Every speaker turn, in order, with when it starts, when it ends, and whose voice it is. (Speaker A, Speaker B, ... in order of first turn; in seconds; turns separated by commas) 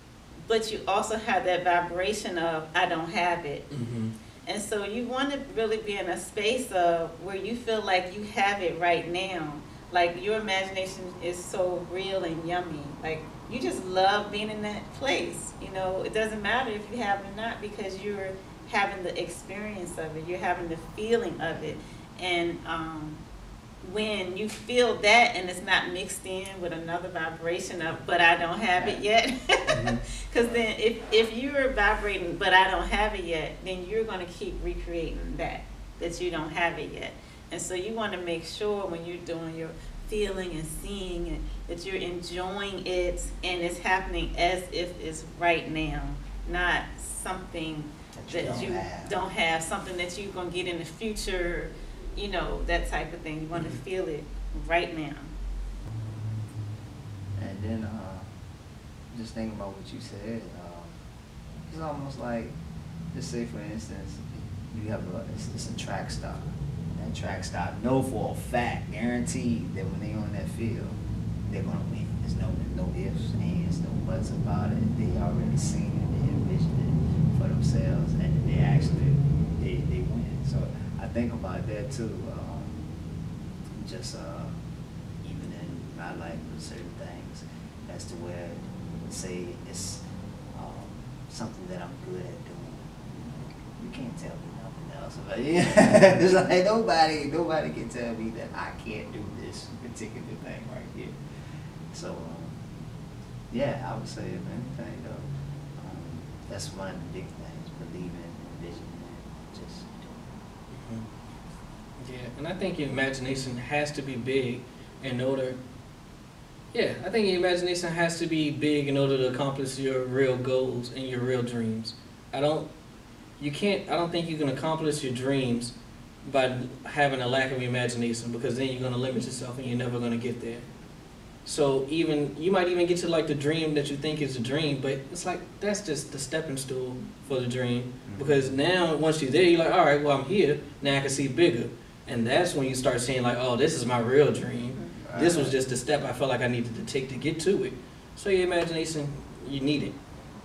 Speaker A: 0.5-3.7, Speaker B: 3.7-4.1, Speaker A: 4.4-23.2, Speaker A: 23.8-55.3, Speaker B: 29.7-30.0, Speaker C: 48.1-49.1, Speaker C: 57.4-58.3, Speaker C: 59.1-61.0, Speaker C: 61.7-62.5, Speaker C: 63.1-82.8, Speaker C: 83.7-84.6, Speaker C: 85.2-101.2, Speaker C: 101.9-102.7, Speaker C: 103.5-110.4, Speaker B: 110.7-111.0, Speaker B: 112.0-115.6, Speaker B: 116.7-122.7, Speaker B: 123.4-130.7, Speaker B: 131.4-149.9, Speaker C: 138.1-138.5, Speaker C: 145.0-145.6